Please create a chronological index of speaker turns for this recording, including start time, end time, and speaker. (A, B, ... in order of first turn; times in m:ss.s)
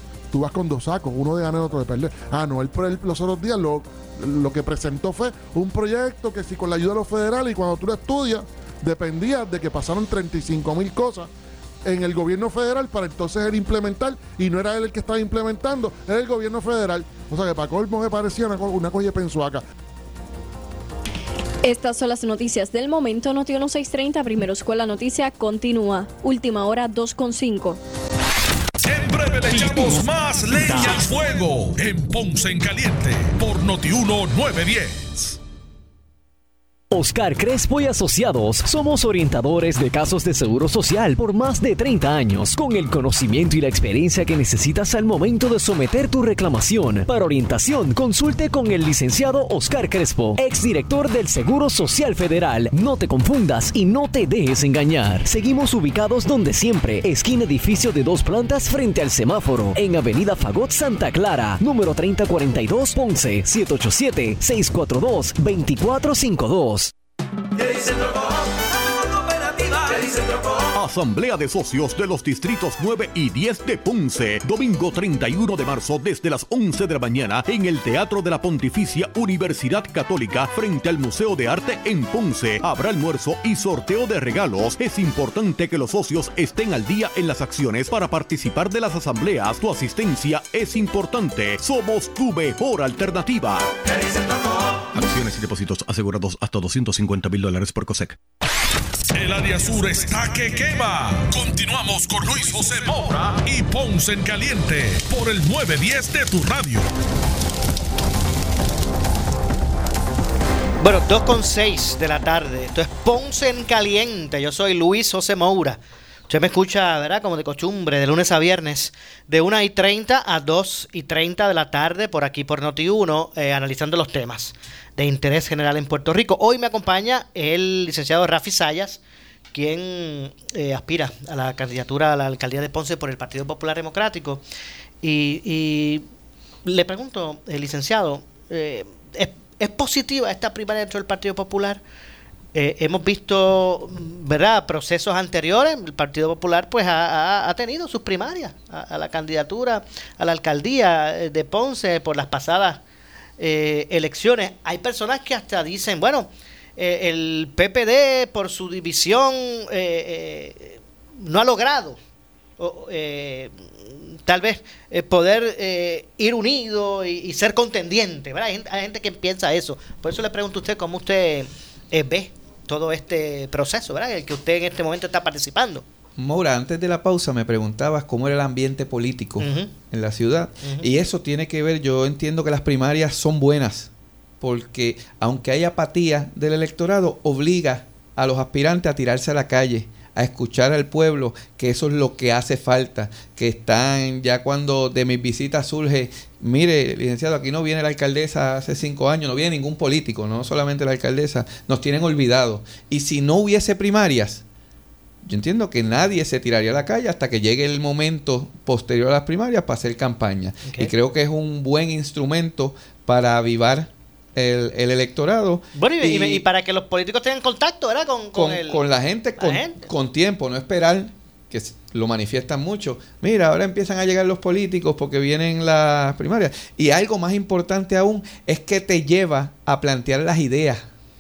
0:00.3-0:11.3 A
0:11.9-0:19.6 A
0:21.6-0:27.8 B
0:28.8-0:35.4 C
0:36.9-1:06.9 D
1:10.7-1:33.7 E
1:34.9-1:38.2 E
1:39.1-1:46.9 C
1:50.8-2:09.0 F
2:09.5-2:14.4 F
2:15.0-2:16.0 F
2:16.6-2:21.8 F
2:22.5-2:32.8 F
2:33.4-2:42.0 F
2:42.6-2:43.5 F
2:44.1-2:55.8 F
2:56.2-3:24.4 G
2:59.4-2:59.7 F
3:25.2-3:36.4 G
3:30.6-3:30.9 F
3:35.8-3:38.8 F
3:38.4-3:50.9 G
3:39.4-3:39.8 F